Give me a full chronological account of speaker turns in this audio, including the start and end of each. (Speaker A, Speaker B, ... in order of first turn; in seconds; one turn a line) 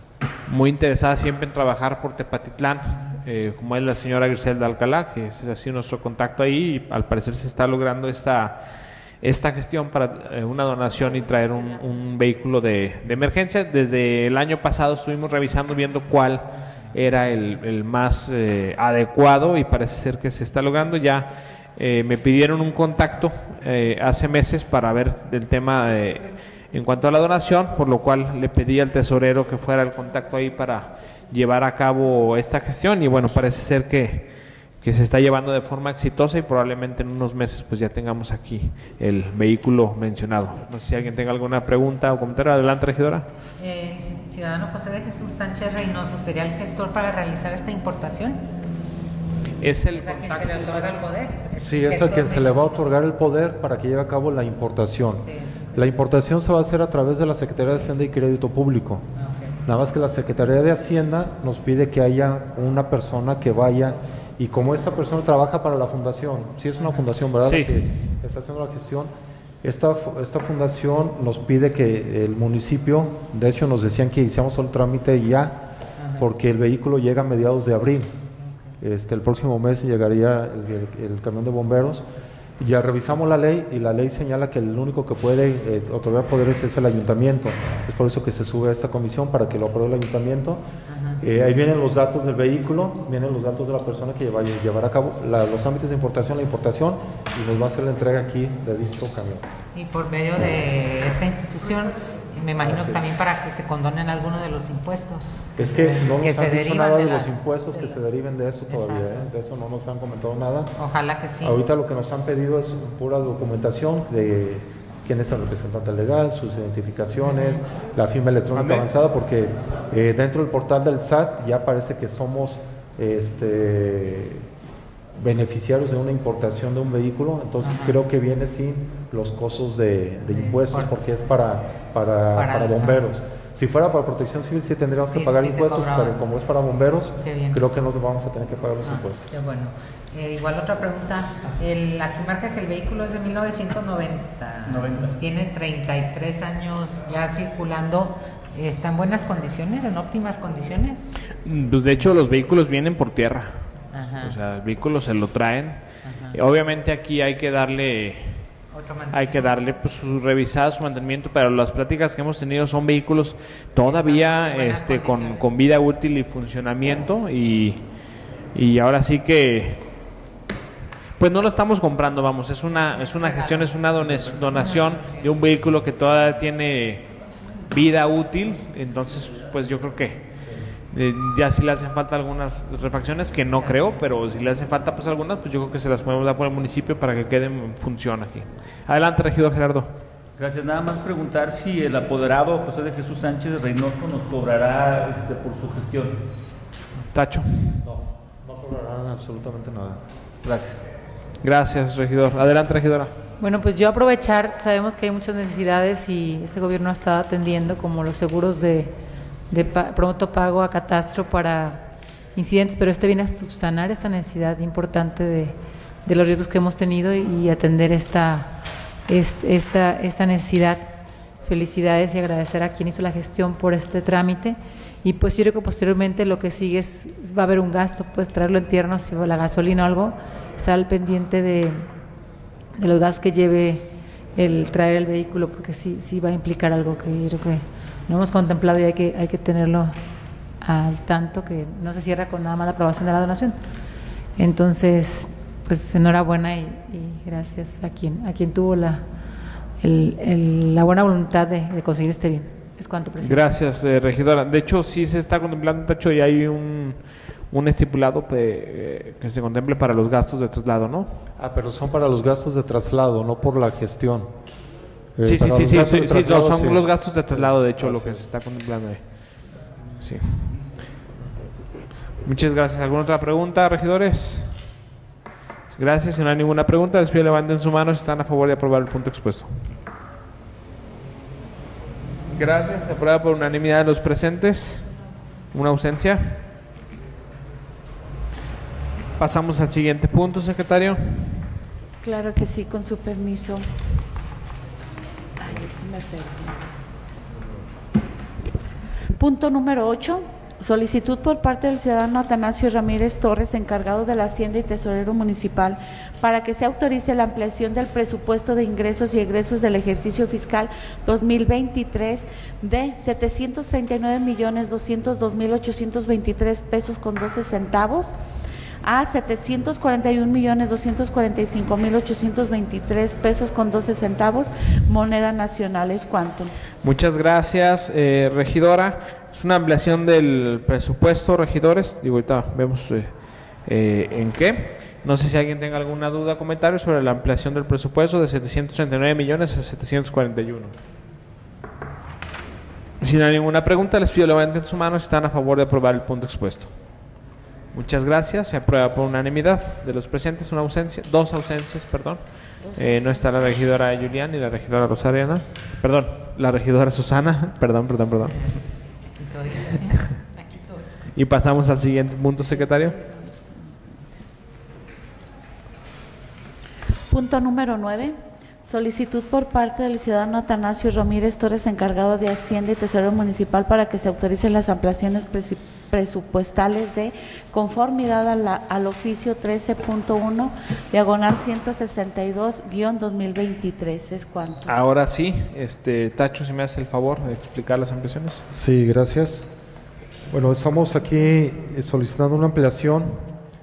Speaker A: 0.5-8.7
Speaker A: 9.2-43.3
Speaker B: 43.6-48.4
Speaker A: 49.6-51.0
Speaker B: 49.9-52.9
Speaker C: 51.5-59.1
Speaker B: 55.2-55.8
Speaker B: 59.1-59.6
Speaker C: 59.6-69.1
Speaker B: 66.8-67.1
Speaker A: 67.4-67.8
Speaker C: 69.6-75.6
Speaker B: 76.0-76.2
Speaker C: 76.2-78.1
Speaker B: 78.4-78.7
Speaker C: 78.8-82.0
Speaker C: 82.6-90.6
Speaker B: 90.9-91.2
Speaker C: 91.2-99.5
Speaker B: 99.7-108.0
Speaker C: 102.6-103.0
Speaker C: 105.6-110.7
Speaker B: 108.7-109.3
Speaker B: 110.8-111.6
Speaker C: 111.4-124.5
Speaker B: 117.2-117.6
Speaker D: 118.5-118.9
Speaker C: 125.2-139.3
Speaker B: 127.6-128.0
Speaker B: 130.3-130.9
Speaker B: 132.3-133.1
Speaker B: 135.0-136.2
Speaker B: 137.2-137.6
Speaker B: 138.8-151.1
Speaker D: 144.7-145.1
Speaker A: 151.4-167.8
Speaker B: 153.9-154.4
Speaker B: 156.0-156.4
Speaker B: 158.7-159.7
Speaker B: 163.8-165.6
Speaker A: 168.5-169.8
Speaker A: 171.2-180.3
Speaker B: 172.7-175.3
Speaker C: 180.4-180.7
Speaker A: 180.9-189.9
Speaker B: 183.5-184.0
Speaker D: 190.4-196.2
Speaker A: 197.1-197.8
Speaker C: 197.8-200.0
Speaker D: 200.4-200.8
Speaker A: 201.4-203.1
Speaker E: 203.4-208.9
Speaker E: 209.5-218.6
Speaker E: 219.1-231.9
Speaker E: 232.8-240.0
Speaker E: 240.6-243.6
Speaker E: 244.4-249.1
Speaker E: 249.8-253.6
Speaker A: 253.2-261.2
Speaker C: 261.4-264.3
Speaker C: 265.1-268.3
Speaker A: 265.2-269.4
Speaker A: 270.0-270.5
Speaker D: 270.3-270.6
Speaker A: 272.2-274.7
Speaker A: 275.7-279.6
Speaker A: 282.3-284.9
Speaker A: 285.5-286.4
Speaker A: 289.2-291.5
Speaker F: 292.0-293.8
Speaker F: 295.4-296.6
Speaker F: 299.1-318.1
Speaker F: 318.8-326.5
Speaker A: 326.8-340.7
Speaker A: 343.0-347.1
Speaker A: 347.7-358.6
Speaker B: 352.7-353.2
Speaker B: 358.3-361.0
Speaker A: 361.1-362.9
Speaker B: 362.3-363.7
Speaker F: 367.1-384.7
Speaker A: 384.7-388.4
Speaker C: 388.5-389.5
Speaker C: 390.3-393.3